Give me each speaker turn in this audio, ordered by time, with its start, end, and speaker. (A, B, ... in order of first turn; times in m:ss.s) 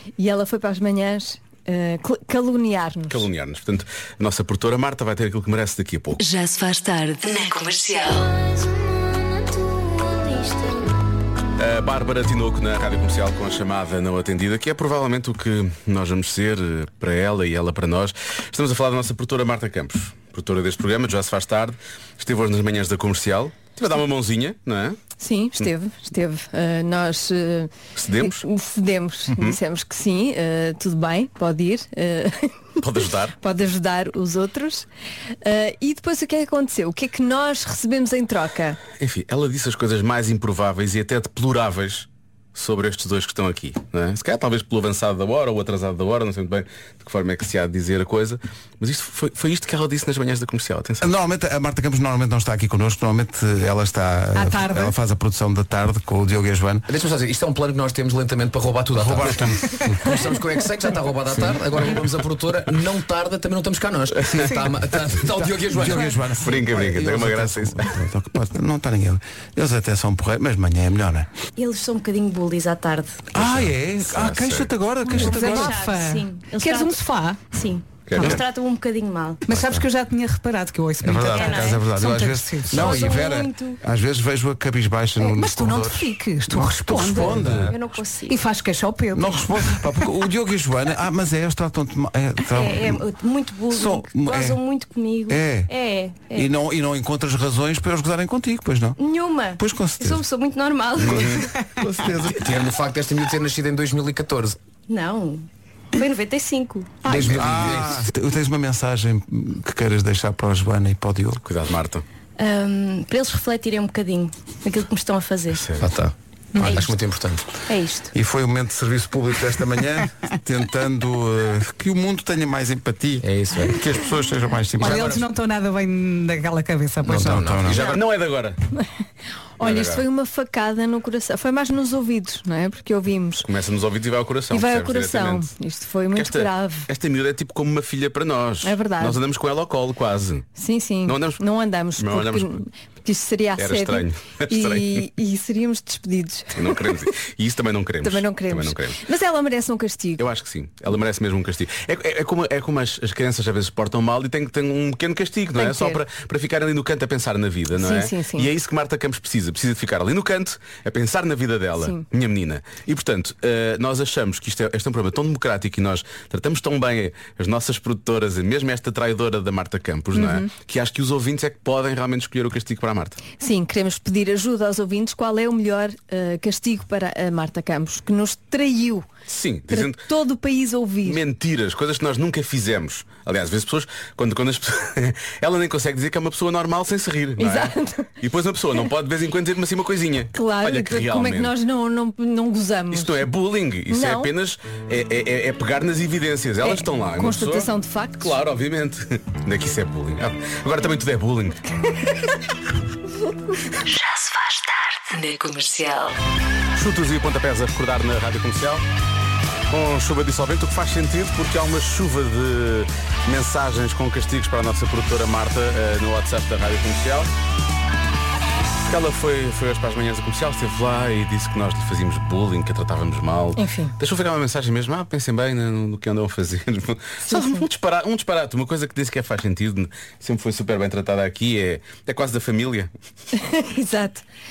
0:00.2-0:03.2 A
0:03.1-0:06.2 B
0:06.2-0:08.3 C
0:11.6-0:25.0 B
0:25.2-0:32.8 A
0:28.0-0:28.4 B
0:29.3-0:29.6 B
0:32.8-0:33.4 B
0:33.4-0:34.8 A
0:35.4-0:38.8 A
0:39.0-0:51.1 B
0:51.0-0:56.8 D
0:54.3-0:54.9 E
0:56.9-1:06.3 F
0:58.9-1:00.3 D
1:04.2-1:04.5 B
1:05.2-1:11.3 D
1:06.4-1:07.9 B
1:11.6-1:13.3 G
1:13.3-1:15.7 D
1:13.4-1:14.7 B
1:15.1-1:19.4 G
1:15.2-1:17.5 E
1:18.1-1:18.4 B
1:18.2-1:18.4 D
1:19.4-1:23.0 E
1:19.5-1:19.8 D
1:21.0-1:27.7 D
1:21.3-1:21.8 G
1:22.6-1:23.8 G
1:25.2-1:27.7 E
1:27.7-1:28.4 G
1:28.3-1:30.1 E
1:29.1-1:33.1 D
1:32.5-1:36.5 G
1:33.7-1:34.6 D
1:35.3-1:35.7 D
1:36.3-1:39.0 D
1:39.0-1:41.4 G
1:39.6-1:40.2 D
1:41.0-1:42.4 D
1:41.0-1:42.4 B
1:42.4-1:44.6 F
1:44.9-1:46.9 G
1:47.0-1:51.4 D
1:47.0-1:47.9 F
1:51.4-1:52.0 B
1:52.4-1:55.6 G
1:55.5-1:55.9 B
1:55.8-1:57.4 F
1:56.5-1:56.8 E
1:57.7-1:58.1 G
1:58.1-2:05.2 D
2:03.2-2:03.8 F
2:04.8-2:07.6 E
2:04.8-2:05.2 F
2:07.0-2:08.0 F
2:07.0-2:07.8 D
2:07.8-2:08.6 B
2:09.6-2:13.5 A
2:09.6-2:10.0 B
2:13.4-2:15.5 B
2:14.5-2:16.9 A
2:16.1-2:20.5 B
2:18.6-2:19.2 A
2:20.6-2:26.9 A
2:21.1-2:21.4 B
2:22.0-2:22.6 B
2:23.6-2:25.0 B
2:26.6-2:29.0 B
2:28.0-2:30.2 A
2:30.2-2:53.2 B
2:35.6-2:36.0 A
2:37.8-2:38.5 A
2:50.1-2:50.5 A
2:53.4-2:59.0 A
2:59.3-3:00.0 B
2:59.7-3:01.2 A
3:01.0-3:11.5 B
3:07.4-3:08.1 A
3:10.3-3:13.3 A
3:12.9-3:21.6 B
3:13.9-3:14.3 A
3:16.6-3:18.4 A
3:23.8-3:26.2 C
3:26.8-3:28.8 B
3:29.7-3:37.3 B
3:38.8-3:52.9 B
3:43.6-3:43.9 A
3:47.2-3:47.6 A
3:53.3-3:54.2 A